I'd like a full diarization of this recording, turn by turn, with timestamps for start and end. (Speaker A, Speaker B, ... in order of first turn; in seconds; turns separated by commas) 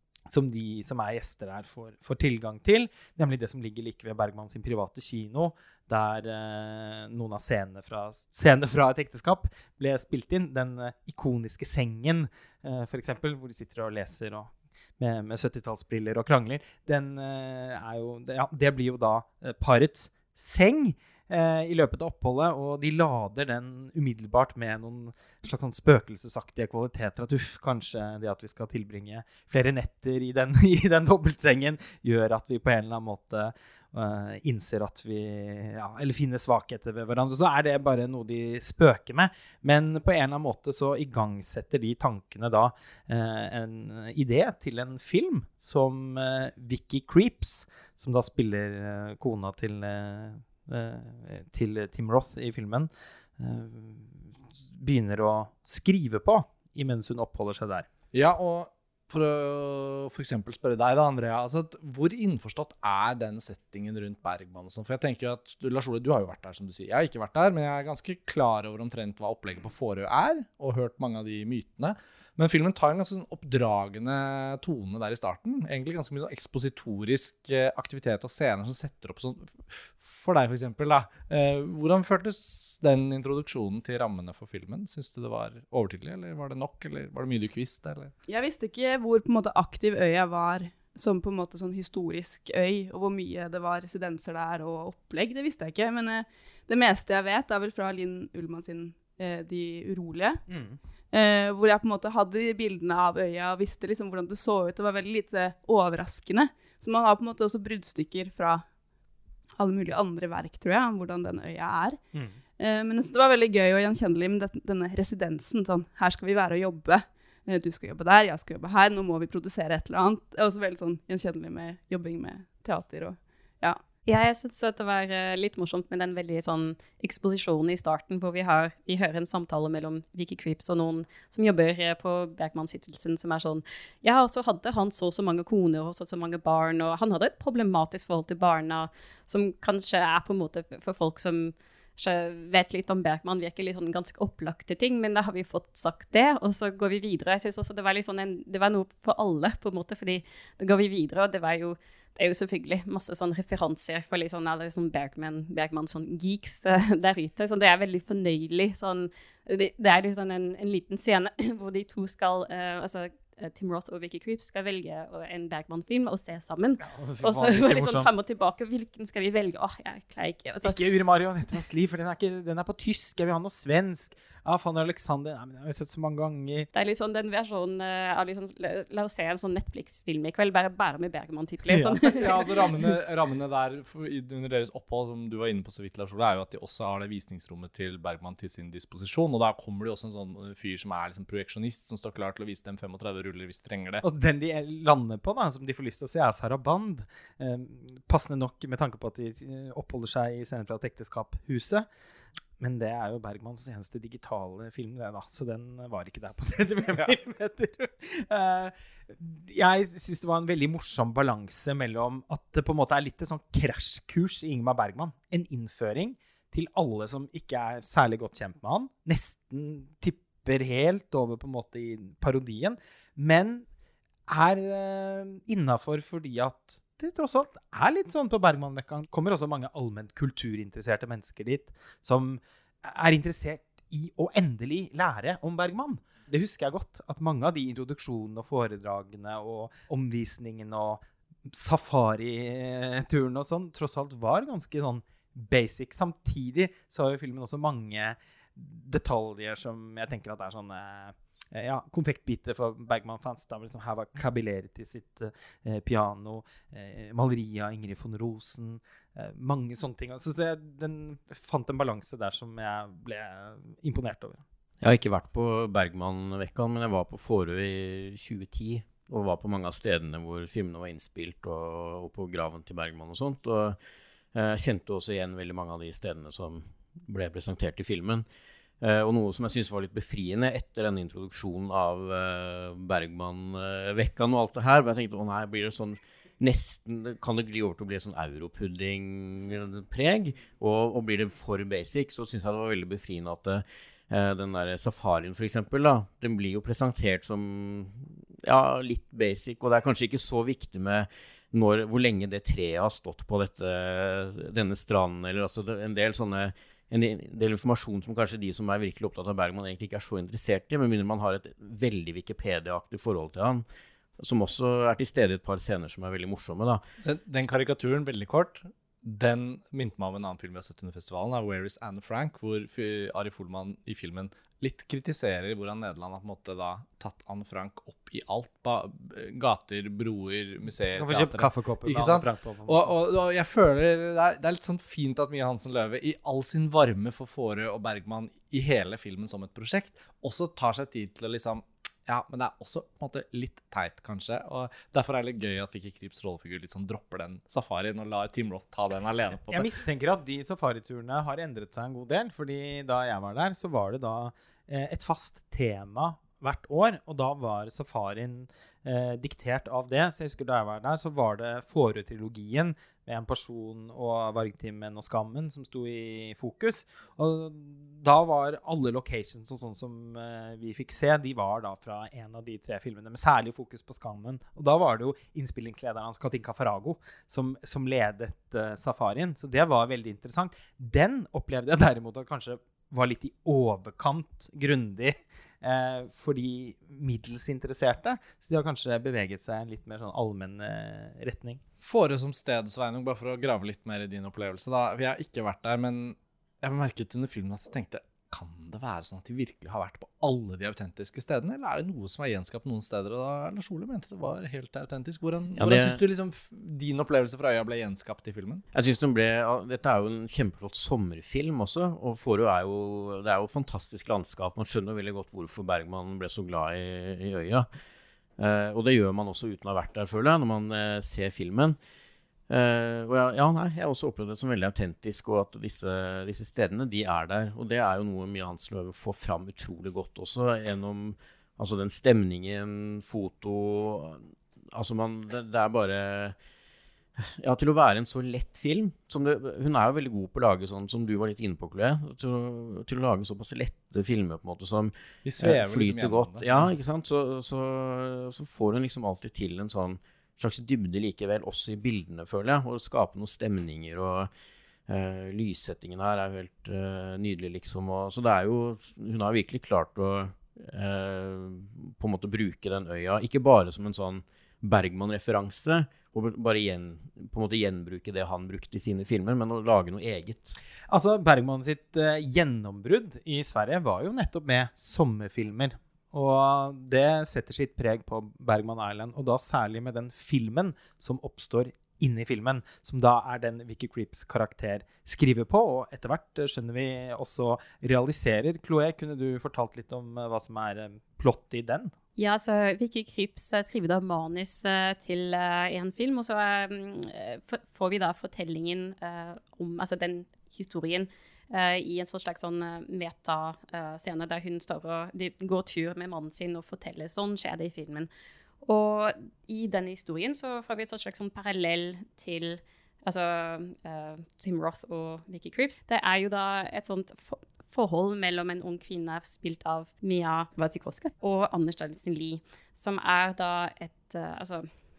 Speaker A: 0.3-57.9, Speaker B: 58.1-88.1, Speaker C: 88.3-100.4, Speaker A: 100.5-100.8, Speaker C: 101.1-108.6, Speaker C: 109.5-112.0, Speaker C: 112.6-123.8, Speaker D: 124.1-170.8, Speaker A: 166.8-168.1, Speaker A: 170.6-176.7, Speaker D: 176.7-182.5, Speaker B: 181.7-194.0, Speaker A: 181.8-182.5, Speaker A: 194.0-201.9, Speaker A: 202.6-223.7, Speaker A: 224.3-264.4, Speaker E: 264.8-273.8, Speaker E: 274.3-278.2, Speaker E: 278.8-313.6, Speaker E: 314.2-316.8, Speaker B: 317.0-349.7, Speaker A: 330.9-332.9, Speaker A: 349.5-391.6, Speaker B: 391.8-408.6, Speaker E: 405.6-406.0, Speaker E: 408.7-417.7, Speaker E: 418.4-421.8, Speaker E: 422.5-436.4, Speaker E: 437.2-454.3, Speaker B: 445.2-446.7, Speaker E: 454.9-470.6, Speaker A: 470.9-491.9, Speaker D: 492.2-508.1, Speaker D: 508.6-524.7